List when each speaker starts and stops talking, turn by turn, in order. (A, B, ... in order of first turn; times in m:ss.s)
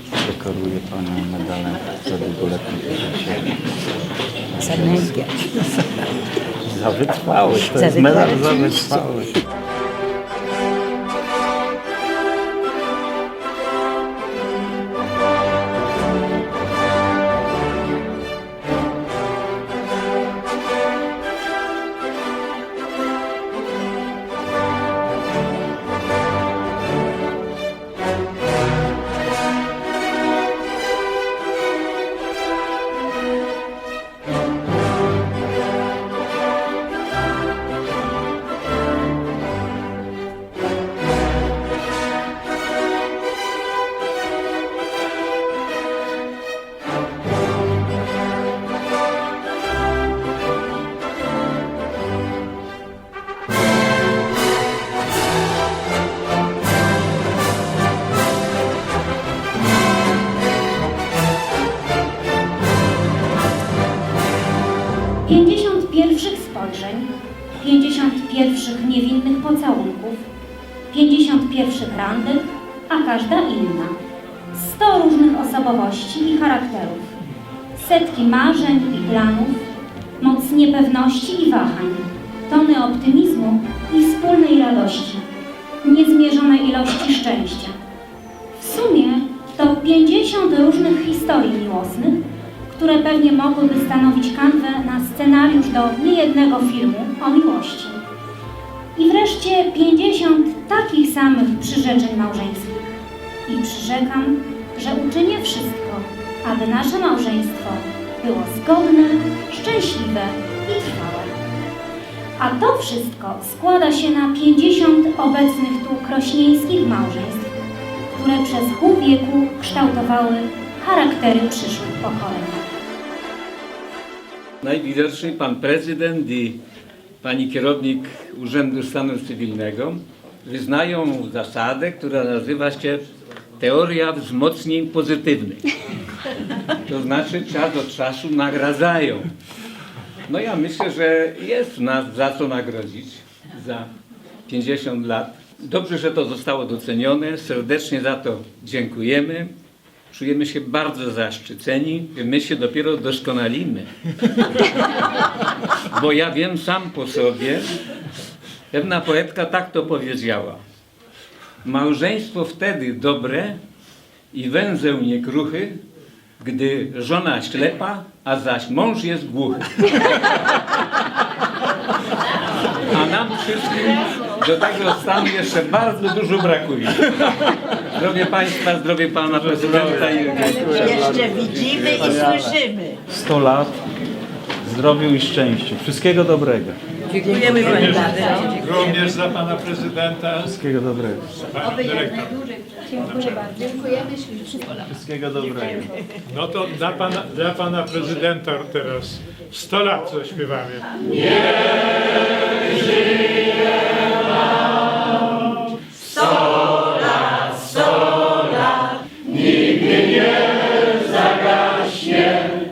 0:00.2-0:03.6 A
0:04.5-0:05.7 A
0:04.6-0:05.5 B
0:06.7-0:09.4 A
0:07.6-0:09.1 B
1:05.2-1:07.1 C
1:07.6-1:10.2 C
1:10.9-1:14.0 C
1:14.5-1:17.1 C
1:17.8-1:19.7 C
1:20.2-1:25.3 C
1:25.8-1:27.8 C
1:28.6-1:38.0 C
1:39.0-1:42.9 C
1:43.5-1:51.3 C
1:52.4-1:57.5 C
1:58.1-2:02.6 C
2:04.6-2:06.6 D
2:07.2-2:13.0 D
2:13.6-2:15.7 D
2:16.9-2:19.3 D
2:20.3-2:23.9 D
2:24.5-2:29.5 D
2:30.1-2:34.7 D
2:35.9-2:37.7 D
2:38.7-2:40.6 D
2:41.6-2:43.6 D
2:44.3-2:45.8 D
2:46.4-2:50.6 D
2:52.8-3:02.1 D
2:59.6-3:02.6 A
3:00.7-3:03.0 B
3:03.1-3:03.8 A
3:04.6-3:06.8 A
3:07.1-3:08.8 B
3:07.4-3:10.6 E
3:10.5-3:11.5 A
3:11.5-3:12.4 E
3:12.9-3:14.0 E
3:14.8-3:15.9 A
3:16.3-3:21.2 E
3:31.2-3:32.4 D